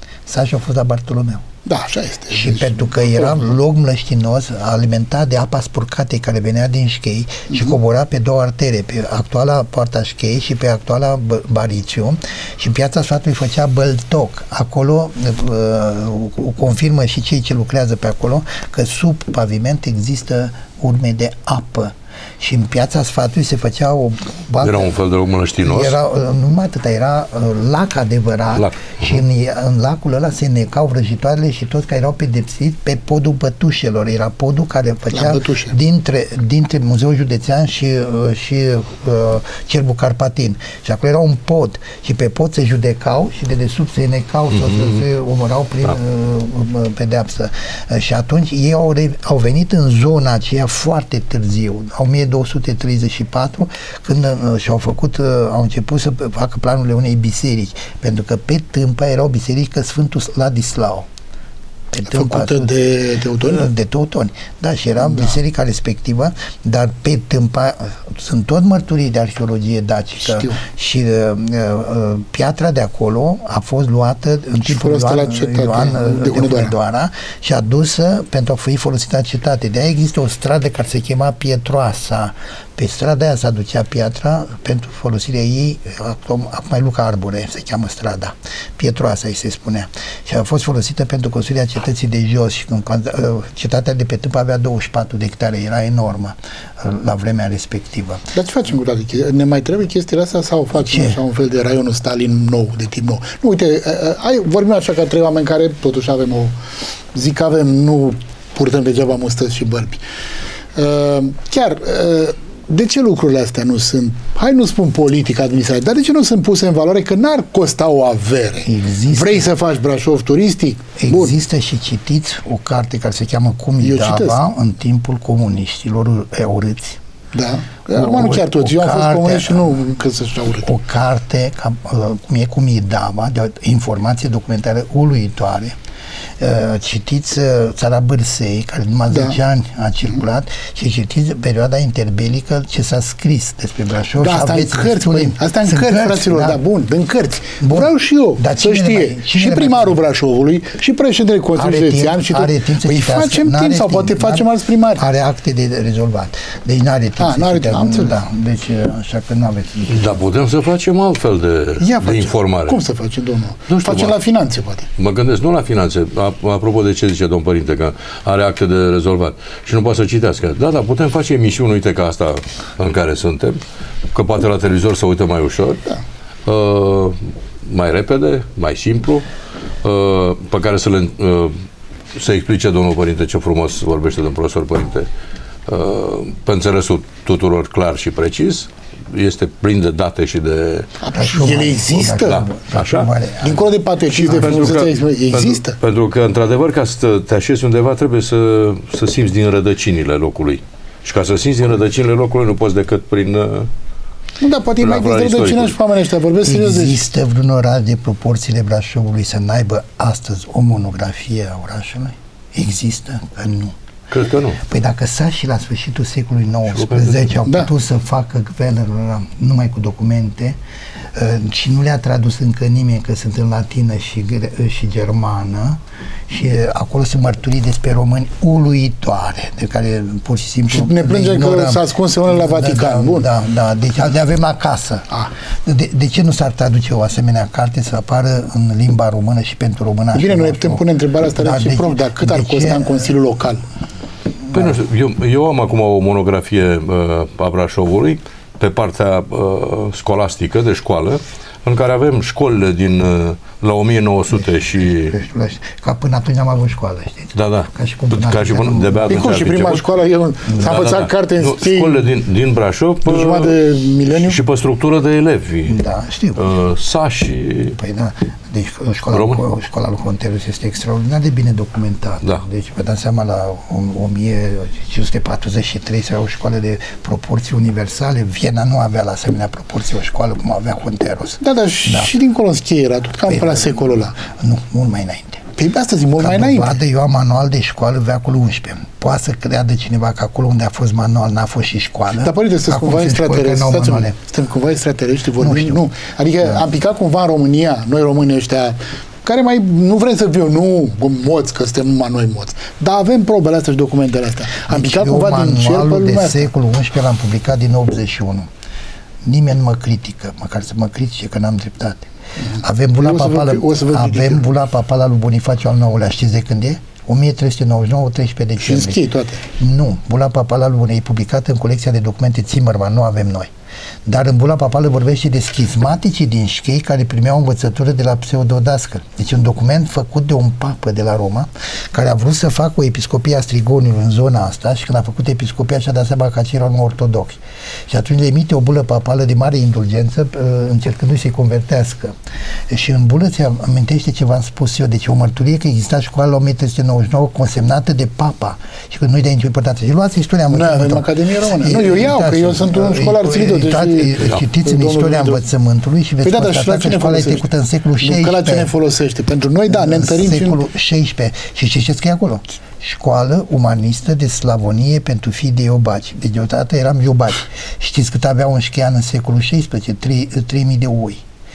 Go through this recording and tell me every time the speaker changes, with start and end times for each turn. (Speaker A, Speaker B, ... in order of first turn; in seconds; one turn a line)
Speaker A: 0.2-1.4
Speaker B: 1.6-3.5
Speaker A: 2.3-25.0
Speaker C: 24.6-25.9
Speaker A: 25.6-61.1
Speaker C: 28.6-29.0
Speaker B: 35.1-35.8
Speaker A: 61.9-62.7
Speaker B: 62.0-63.7
Speaker A: 63.4-98.3
Speaker B: 70.3-70.6
Speaker B: 74.6-76.7
Speaker B: 98.3-106.5
Speaker B: 107.1-110.0
Speaker B: 110.7-121.3
Speaker A: 118.6-119.5
Speaker A: 121.0-127.0
Speaker B: 123.8-124.4
Speaker B: 127.3-130.7
Speaker A: 127.9-129.8
Speaker A: 130.6-135.8
Speaker A: 136.4-146.6
Speaker B: 139.1-139.3
Speaker B: 144.2-155.0
Speaker A: 147.6-150.0
Speaker A: 151.6-160.2
Speaker B: 157.2-158.2
Speaker C: 159.9-162.8
Speaker B: 161.8-164.9
Speaker C: 163.7-164.2
Speaker C: 165.0-173.6
Speaker C: 174.1-175.9
Speaker C: 176.4-179.3
Speaker C: 179.8-181.6
Speaker C: 182.1-185.1
Speaker C: 185.7-190.9
Speaker B: 191.0-192.4
Speaker A: 191.1-193.7
Speaker C: 192.1-193.1
Speaker B: 193.4-195.8
Speaker C: 194.2-203.7
Speaker B: 204.4-207.0
Speaker C: 204.8-205.7
Speaker A: 206.4-213.8
Speaker C: 214.1-214.6
Speaker A: 214.6-220.6
Speaker C: 216.7-217.2
Speaker A: 221.1-235.1
Speaker B: 230.7-233.3
Speaker A: 235.6-240.8
Speaker B: 240.1-243.6
Speaker A: 241.4-243.1
Speaker C: 244.5-255.1
Speaker A: 254.8-259.3
Speaker C: 257.4-259.8
Speaker B: 259.1-262.0
Speaker C: 260.6-265.8
Speaker B: 263.1-264.4
Speaker A: 265.7-266.4
Speaker C: 266.4-267.8
Speaker A: 267.7-282.1
Speaker C: 269.1-269.4
Speaker B: 281.4-284.2
Speaker A: 283.3-285.4
Speaker B: 285.6-286.8
Speaker A: 286.2-294.1
Speaker B: 292.1-306.5
Speaker A: 295.4-295.8
Speaker A: 304.6-308.5
Speaker A: 309.2-323.5
Speaker B: 313.0-314.5
Speaker B: 318.6-319.4
Speaker A: 324.1-342.1
Speaker A: 342.7-358.7
Speaker B: 350.5-355.4
Speaker B: 356.2-357.5
Speaker B: 358.0-360.6
Speaker A: 359.7-371.2